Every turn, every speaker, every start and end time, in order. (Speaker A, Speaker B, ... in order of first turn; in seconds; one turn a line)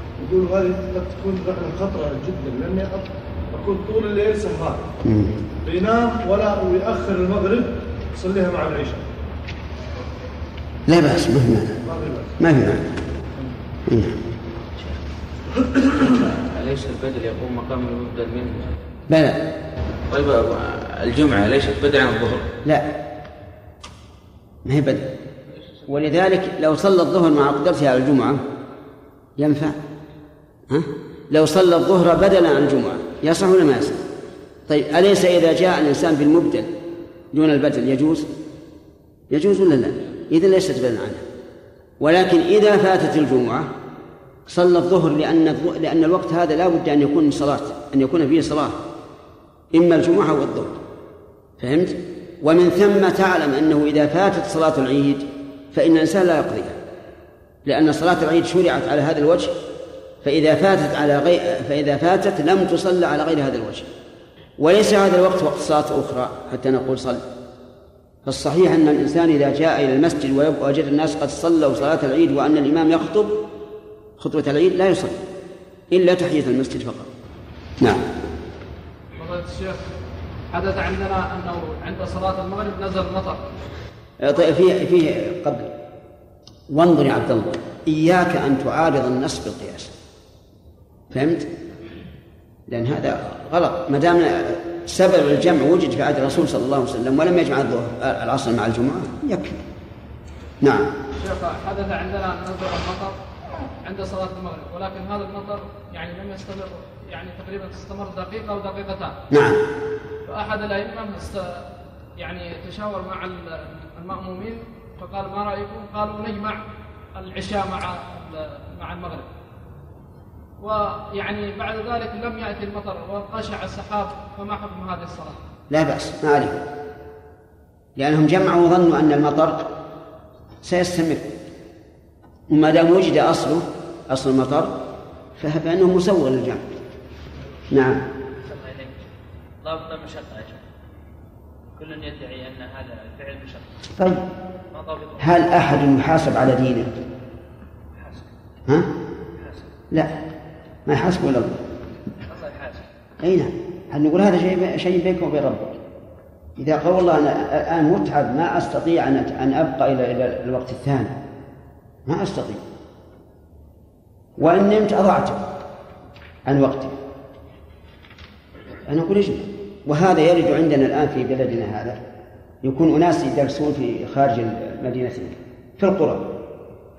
Speaker A: 0.2-4.8
Speaker B: 5.0-5.4
Speaker A: 5.6-9.0
Speaker B: 10.9-11.8
Speaker A: 11.8-12.3
Speaker B: 12.4-12.9
Speaker B: 13.9-14.2
Speaker C: 15.8-18.7
Speaker B: 19.1-19.5
Speaker C: 20.1-22.5
Speaker B: 22.6-22.9
Speaker B: 24.6-25.1
Speaker B: 25.9-28.4
Speaker B: 29.4-29.8
Speaker B: 30.7-34.0
Speaker B: 34.7-36.7
Speaker B: 37.3-38.3
Speaker B: 39.3-41.2
Speaker B: 42.0-43.7
Speaker B: 44.5-48.8
Speaker B: 49.7-50.8
Speaker B: 51.6-56.8
Speaker B: 57.6-59.5
Speaker B: 60.2-63.9
Speaker B: 64.6-67.2
Speaker B: 68.3-73.4
Speaker B: 74.2-75.2
Speaker B: 75.9-77.1
Speaker B: 77.8-78.0
Speaker D: 79.2-79.8
Speaker D: 80.5-83.4
Speaker B: 84.2-85.7
Speaker B: 86.7-89.9
Speaker B: 91.1-91.5
Speaker B: 92.7-99.6
Speaker B: 100.6-100.9
Speaker D: 101.2-103.1
Speaker D: 103.8-109.2
Speaker B: 109.3-109.6
Speaker D: 110.3-111.7
Speaker D: 112.2-116.6
Speaker D: 117.1-119.3
Speaker D: 120.6-125.4
Speaker B: 125.7-126.6
Speaker B: 128.0-129.7
Speaker B: 130.6-131.3
Speaker B: 132.5-134.8
Speaker B: 135.4-136.6
Speaker B: 137.7-138.1
Speaker E: 138.4-138.9
Speaker E: 139.6-140.6
Speaker E: 141.7-143.7
Speaker B: 144.0-144.2
Speaker E: 144.7-145.2
Speaker B: 145.2-146.9
Speaker E: 147.9-148.2
Speaker B: 149.9-150.2
Speaker B: 150.9-151.6
Speaker E: 152.3-152.8
Speaker B: 153.2-155.8
Speaker B: 156.6-161.1
Speaker B: 162.1-162.6
Speaker B: 164.4-165.4
Speaker B: 166.5-167.0
Speaker B: 168.9-172.0
Speaker B: 172.6-176.4